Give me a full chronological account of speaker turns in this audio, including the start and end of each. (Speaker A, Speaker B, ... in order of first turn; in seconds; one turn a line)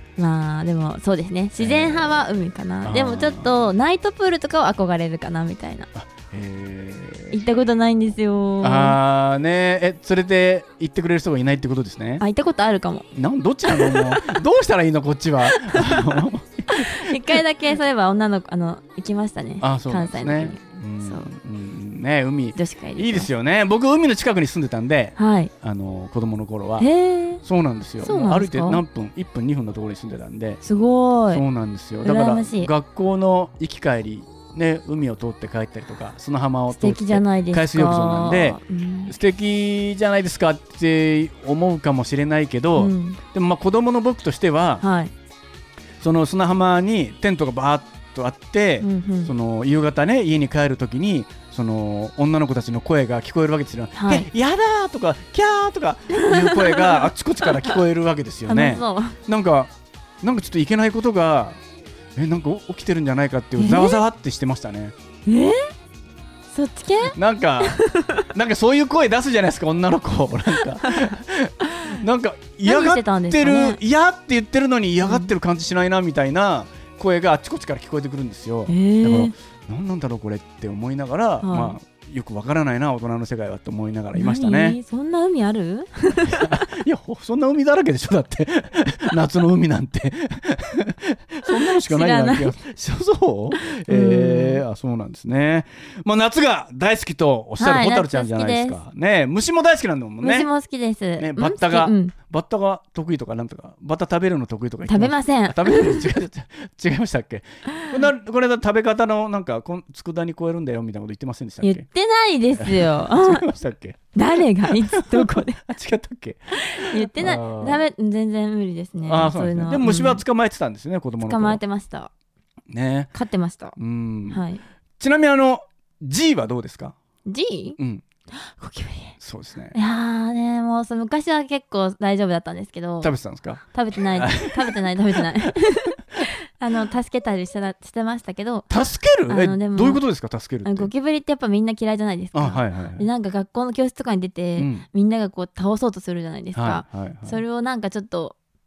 Speaker A: 0.2-5.9
Speaker B: 1.6-2.3
Speaker B: 2.8-3.7
Speaker B: 6.0-7.4
Speaker A: 7.3-9.0
Speaker B: 8.6-12.2
Speaker A: 12.2-13.1
Speaker B: 13.1-17.4
Speaker A: 13.7-14.4
Speaker A: 15.6-21.3
Speaker B: 19.6-26.9
Speaker A: 22.6-23.3
Speaker A: 25.2-25.5
Speaker A: 26.8-27.4
Speaker B: 27.4-30.6
Speaker A: 28.0-28.8
Speaker A: 30.6-31.4
Speaker B: 31.3-44.8
Speaker A: 32.0-32.7
Speaker A: 36.8-39.2
Speaker A: 42.8-43.2
Speaker A: 44.8-45.1
Speaker B: 46.0-61.6
Speaker A: 48.8-49.3
Speaker A: 54.0-54.3
Speaker A: 56.1-57.1
Speaker A: 58.5-59.2
Speaker B: 62.1-64.9
Speaker A: 63.6-64.0
Speaker A: 65.3-65.7
Speaker A: 66.5-68.2
Speaker B: 67.1-67.8
Speaker B: 68.3-84.8
Speaker A: 72.6-73.8
Speaker A: 75.0-75.3
Speaker A: 78.7-79.3
Speaker A: 81.4-81.8
Speaker A: 84.2-86.6
Speaker B: 86.2-100.5
Speaker A: 91.5-92.5
Speaker A: 93.9-94.6
Speaker A: 97.6-98.8
Speaker A: 100.2-102.1
Speaker B: 101.2-111.9
Speaker A: 104.9-106.0
Speaker A: 111.6-113.5
Speaker B: 112.5-117.8
Speaker A: 114.1-115.6
Speaker A: 116.5-120.2
Speaker B: 119.0-121.6
Speaker A: 121.2-122.1
Speaker B: 122.7-123.1
Speaker A: 123.1-123.8
Speaker B: 123.8-124.4
Speaker A: 124.3-124.6
Speaker B: 125.0-127.0
Speaker A: 127.3-127.8
Speaker B: 127.8-128.0
Speaker A: 128.5-129.2
Speaker B: 129.2-129.8
Speaker A: 129.7-133.1
Speaker B: 133.0-133.6
Speaker A: 133.7-138.7
Speaker B: 134.1-135.5
Speaker B: 138.7-140.9
Speaker A: 139.3-140.0
Speaker A: 140.6-148.3
Speaker B: 142.3-143.1
Speaker B: 144.6-144.8
Speaker B: 146.6-147.4